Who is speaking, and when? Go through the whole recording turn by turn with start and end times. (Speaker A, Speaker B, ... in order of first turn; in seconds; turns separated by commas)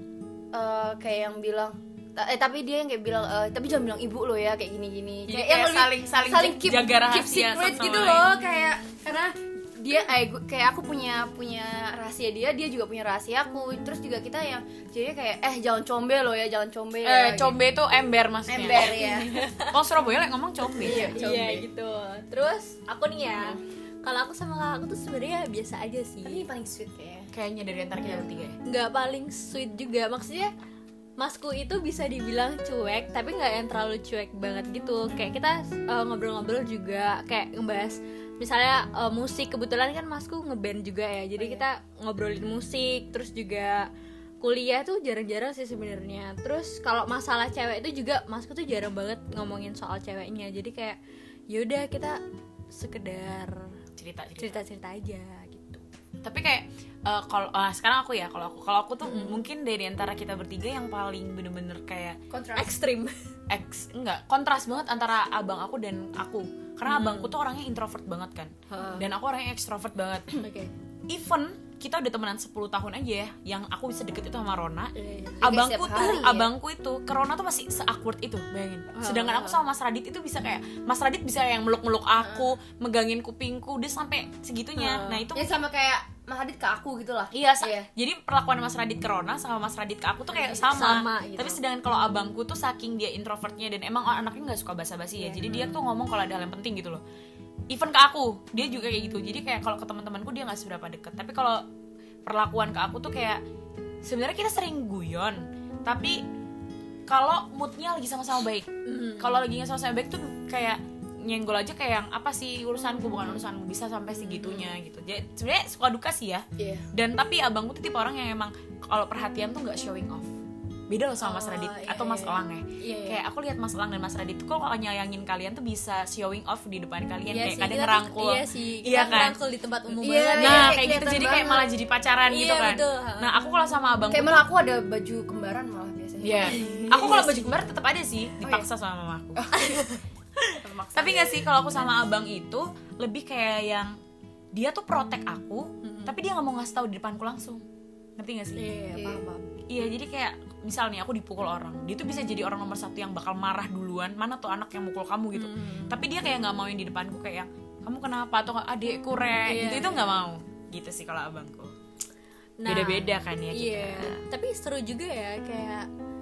Speaker A: 0.5-17.6, Speaker B: 5.3-8.3, Speaker B: 17.0-21.1, Speaker A: 18.5-19.3, Speaker C: 19.0-19.8, Speaker A: 20.8-21.7, Speaker C: 20.8-26.4, Speaker A: 26.2-27.3, Speaker B: 27.3-28.6, Speaker A: 28.0-28.3, Speaker C: 28.6-30.5, Speaker C: 31.2-43.9, Speaker A: 41.4-41.6, Speaker C: 44.4-51.0, Speaker C: 51.5-53.7, Speaker B: 54.0-54.6, Speaker C: 54.4-55.8, Speaker B: 56.2-62.2, Speaker C: 59.0-59.4, Speaker A: 62.3-62.7, Speaker C: 62.5-63.1, Speaker B: 63.5-70.3, Speaker C: 66.9-67.3, Speaker C: 68.7-69.0, Speaker C: 70.4-70.7, Speaker B: 71.1-85.5, Speaker C: 74.9-75.5, Speaker A: 75.4-76.5, Speaker C: 78.9-79.6, Speaker A: 82.2-82.5, Speaker C: 84.8-85.3, Speaker A: 85.3-87.9, Speaker B: 87.3-97.0, Speaker A: 90.3-90.6, Speaker C: 90.5-91.6, Speaker A: 95.2-95.5, Speaker B: 97.7-101.6, Speaker B: 102.2-103.4, Speaker B: 104.0-106.2, Speaker B: 107.1-120.3, Speaker C: 108.8-109.5, Speaker C: 114.2-114.7, Speaker A: 116.6-116.8, Speaker B: 120.9-129.3, Speaker C: 121.2-123.2, Speaker C: 127.2-130.9, Speaker A: 129.9-131.7, Speaker B: 130.4-134.4, Speaker C: 132.2-133.3, Speaker A: 134.1-137.3, Speaker B: 136.2-139.4, Speaker C: 136.4-137.5, Speaker A: 139.3-140.0, Speaker A: 140.6-141.4, Speaker B: 140.9-143.9, Speaker B: 144.5-147.6, Speaker C: 145.8-146.2, Speaker B: 148.2-148.7, Speaker C: 148.6-149.2, Speaker A: 148.9-149.5, Speaker B: 149.7-161.7, Speaker C: 155.3-156.0, Speaker C: 159.4-160.2, Speaker C: 162.6-165.9, Speaker B: 162.6-164.2